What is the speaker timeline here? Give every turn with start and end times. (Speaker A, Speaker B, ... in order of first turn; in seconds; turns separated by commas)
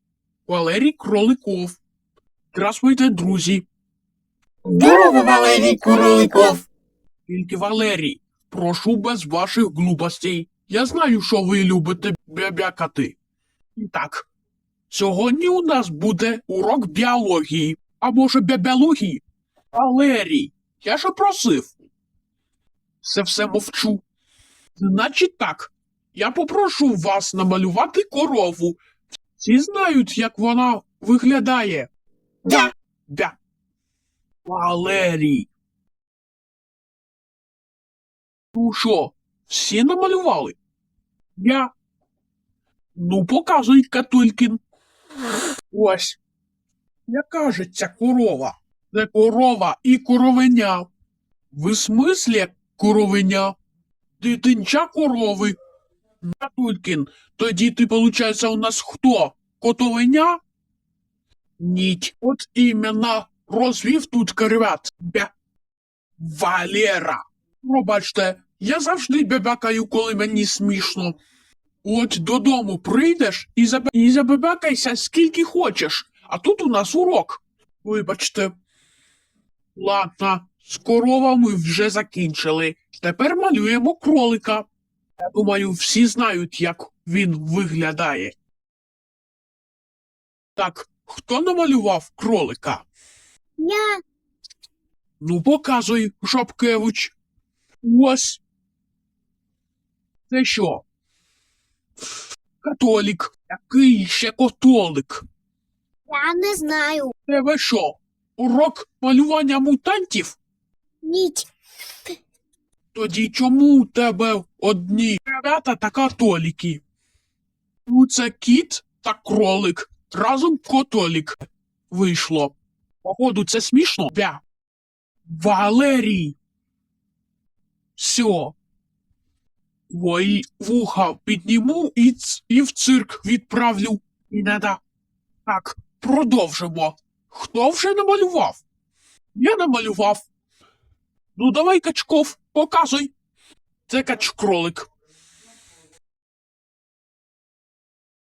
Speaker A: 0.5-1.8, Speaker A: 2.5-3.6, Speaker B: 4.7-6.6, Speaker A: 4.8-6.6, Speaker A: 7.3-13.2, Speaker A: 13.8-14.3, Speaker A: 14.9-19.2, Speaker A: 19.7-21.7, Speaker A: 23.0-24.0, Speaker A: 24.8-28.8, Speaker A: 29.4-31.9, Speaker A: 32.5-33.4, Speaker A: 34.4-35.5, Speaker A: 38.5-40.6, Speaker A: 41.4-41.7, Speaker A: 43.0-44.6, Speaker A: 45.7-46.2, Speaker A: 47.1-50.9, Speaker A: 51.5-53.5, Speaker A: 54.2-55.5, Speaker A: 56.2-60.4, Speaker A: 61.6-65.3, Speaker A: 66.2-71.2, Speaker A: 71.8-78.5, Speaker A: 79.7-84.7, Speaker A: 85.2-88.3, Speaker A: 90.5-92.8, Speaker B: 93.6-94.0, Speaker A: 95.2-97.1, Speaker A: 97.8-98.4, Speaker A: 100.3-100.8, Speaker A: 102.6-105.2, Speaker B: 106.1-107.1, Speaker A: 107.3-110.4, Speaker B: 111.0-111.5, Speaker A: 112.9-116.8, Speaker A: 117.9-124.4, Speaker A: 125.3-126.3, Speaker A: 128.0-128.6, Speaker A: 129.9-134.8, Speaker A: 135.4-138.6, Speaker A: 139.3-140.2, Speaker A: 141.3-143.1, Speaker A: 143.9-144.9